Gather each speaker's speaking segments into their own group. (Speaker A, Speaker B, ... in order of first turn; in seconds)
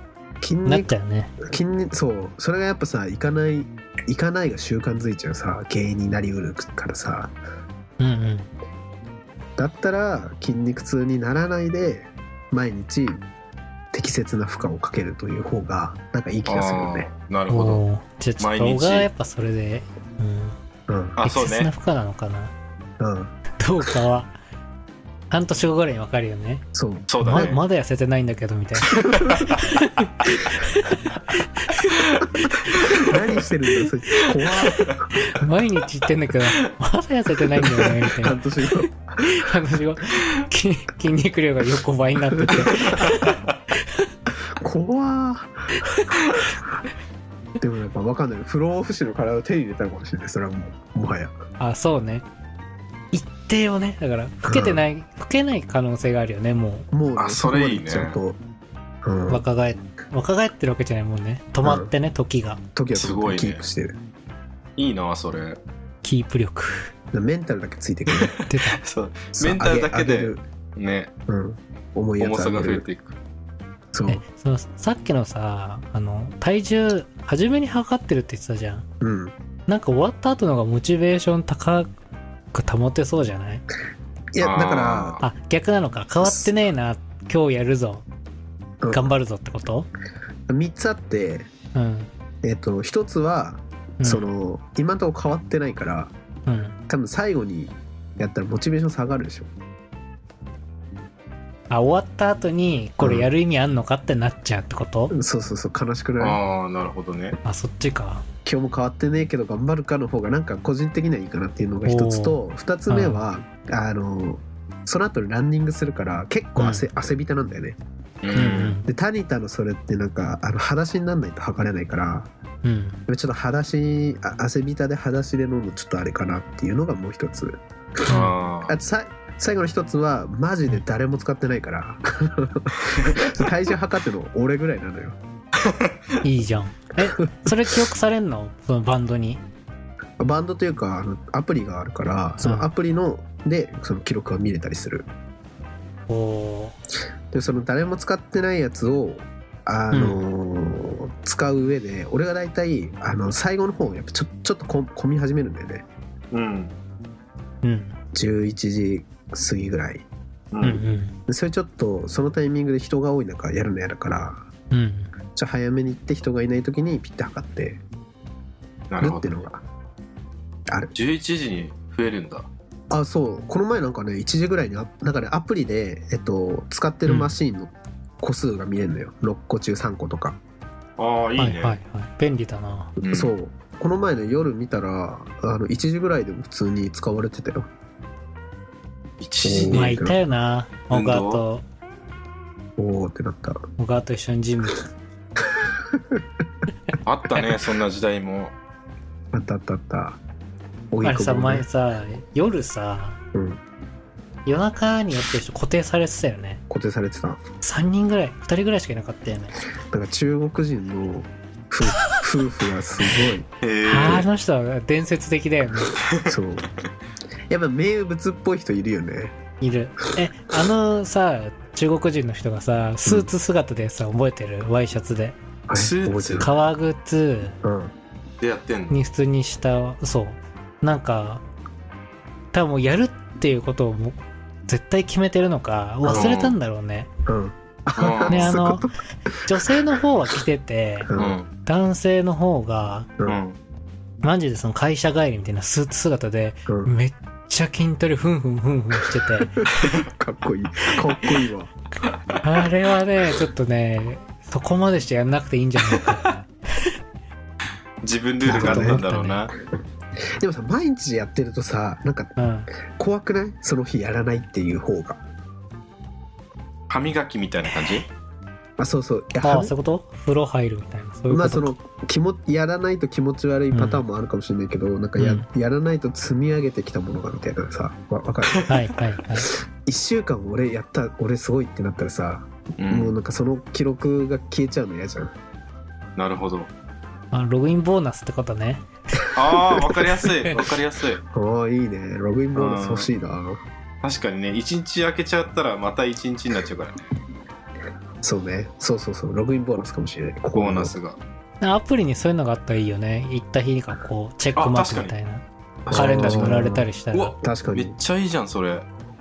Speaker A: 0.4-7.3, 9.6-13.2, 13.9-17.1, 20.9-21.2, 23.0-23.3, 26.7-27.6, 32.9-35.1, 38.1-39.4, 42.3-43.0, 44.5-45.9, 47.6-51.3, 54.5-54.8, 56.9-58.4, 59.0-59.4, 61.6-61.9, 62.7-64.0, 67.1-68.3, 69.3-70.4, 71.3-72.8, 73.9-74.2, 79.0-79.3, 84.3-85.2, 86.2-86.5, 88.8-89.1, 90.5-91.5, 92.4-96.1, 96.9-99.5, 103.0-103.3, 105.1-106.4, 108.4-117.8, 118.8-122.3, 123.1-128.1, 128.6-135.2, 140.2-145.1, 147.3-155.8, 158.1-160.1, 161.3-164.4, 165.3-167.8, 169.0-169.6, 170.7-170.9, 172.9-180.4, 183.0-187.7, 189.4-190.2, 192.8-193.6, 195.9-196.2, 199.3-200.2, 200.9-201.7, 203.3-203.6, 206.7-207.4, 209.9-213.5, 216.2-216.7, 217.5-219.3, 225.7-226.5, 227.6-227.9, 236.0-236.4, 237.2-240.0, 241.1-241.4, 246.7-246.9, 249.4-251.7, 258.4-259.0, 260.3-262.3, 262.9-265.2, 268.8-269.7, 271.3-278.7, 279.8-285.3, 291.3-293.6, 298.2-300.9, 305.9-306.9, 307.4-307.9
Speaker B: 0.6-1.4, 8.0-8.5, 17.5-20.6, 21.2-22.5, 23.6-24.3, 25.3-26.6, 27.2-32.5, 35.1-38.4, 39.2-43.4, 45.8-46.1, 51.6-52.2, 53.1-56.9, 59.3-62.6, 66.0-66.9, 68.5-68.8, 74.1-78.8, 79.7-81.9, 82.5-83.6, 85.2-88.0, 88.9-89.9, 91.7-92.1, 94.0-94.3, 96.5-96.8, 101.7-105.1, 107.4-108.2, 111.8-113.2, 116.6-116.8, 118.3-118.9, 122.6-123.0, 128.1-128.3, 136.2-139.4, 142.4-142.7, 146.1-146.8, 149.9-150.2, 157.6-157.9, 160.6-161.1, 164.7-165.1, 177.1-177.3, 181.4-182.9, 189.7-191.6, 193.8-194.9, 201.0-203.2, 204.4-206.6, 207.6-209.6, 213.8-215.9, 219.6-225.4, 226.4-227.6, 228.9-231.4, 232.5-237.1, 238.3-238.9, 239.4-241.1, 241.6-243.1, 244.2-249.6, 252.4-256.9, 258.4-259.5, 262.4-262.7, 269.4-271.7, 273.7-274.0, 275.2-275.5, 278.7-279.5, 287.3-288.9, 301.6-307.4
Speaker C: 16.4-17.8, 18.4-19.1, 21.2-21.7, 27.1-27.6, 29.1-29.6, 32.8-33.2, 34.6-35.0, 57.2-58.2, 62.9-63.6, 64.8-65.6, 68.1-71.1, 72.2-73.2, 84.4-85.2, 106.2-107.4, 118.2-118.8, 128.1-128.7, 135.6-135.9, 156.3-156.7, 160.5-160.8, 168.9-169.3, 170.9-172.5, 181.0-181.8, 183.0-183.3, 189.2-190.0, 190.9-191.4, 197.0-198.5, 213.6-214.3, 216.0-216.3, 225.7-226.5, 228.4-229.0, 236.1-236.6, 238.0-238.6, 241.1-241.5, 243.2-243.6, 258.0-259.5, 266.9-268.1, 282.8-283.1, 286.2-286.7, 289.3-291.2, 292.5-293.1, 294.0-296.9, 300.5-301.2, 304.6-305.1, 305.9-308.8